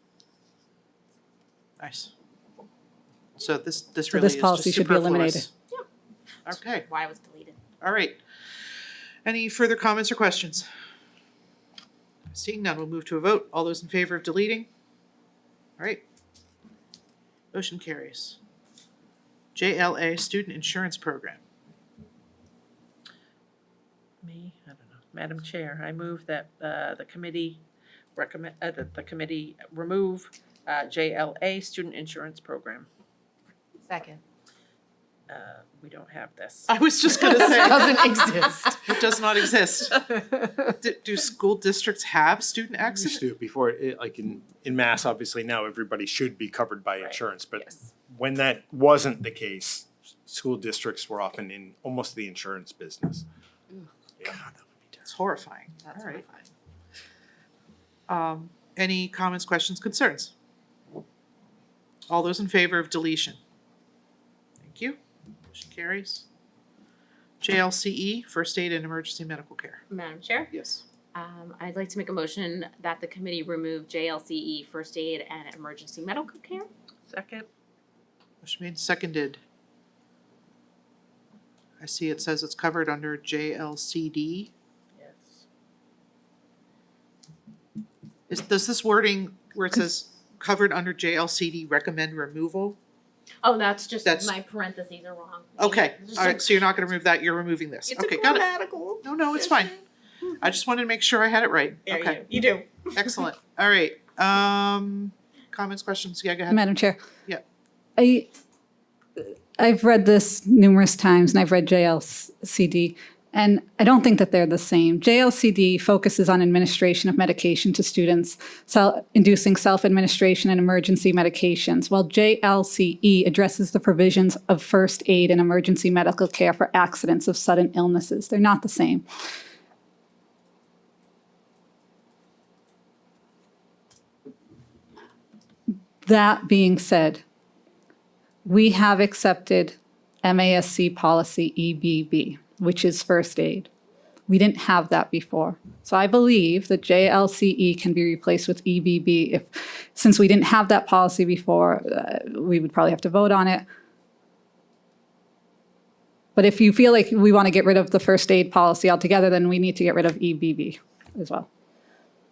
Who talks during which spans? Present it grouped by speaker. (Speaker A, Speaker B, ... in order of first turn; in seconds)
Speaker A: 1.8-2.1, 3.4-5.5, 6.5-6.9, 7.8-8.2, 9.2-10.7, 12.3-14.7, 15.8-16.0, 17.5-18.4, 19.6-21.4, 36.7-40.0, 40.7-43.2, 55.1-56.2, 58.1-60.3, 62.1-63.4, 64.6-66.2, 67.4-69.8, 70.5-70.8, 78.4-79.4, 81.8-84.5, 88.3-92.8, 94.0-94.3, 95.6-99.8, 100.4-102.2, 102.9-106.6
Speaker B: 4.1-5.5, 106.5-107.0, 108.0-108.3, 109.2-129.0, 136.0-137.2, 138.4-143.7, 144.3-153.6, 156.3-161.5
Speaker C: 6.9-7.6, 38.1-38.4, 69.9-70.5, 71.1-76.7, 93.4-96.7, 97.9-99.8, 101.8-103.2
Speaker D: 24.2-27.6, 28.1-32.9, 35.3-38.1, 56.2-56.4, 77.1-77.5, 84.9-85.4
Speaker E: 42.9-53.2, 54.2-55.1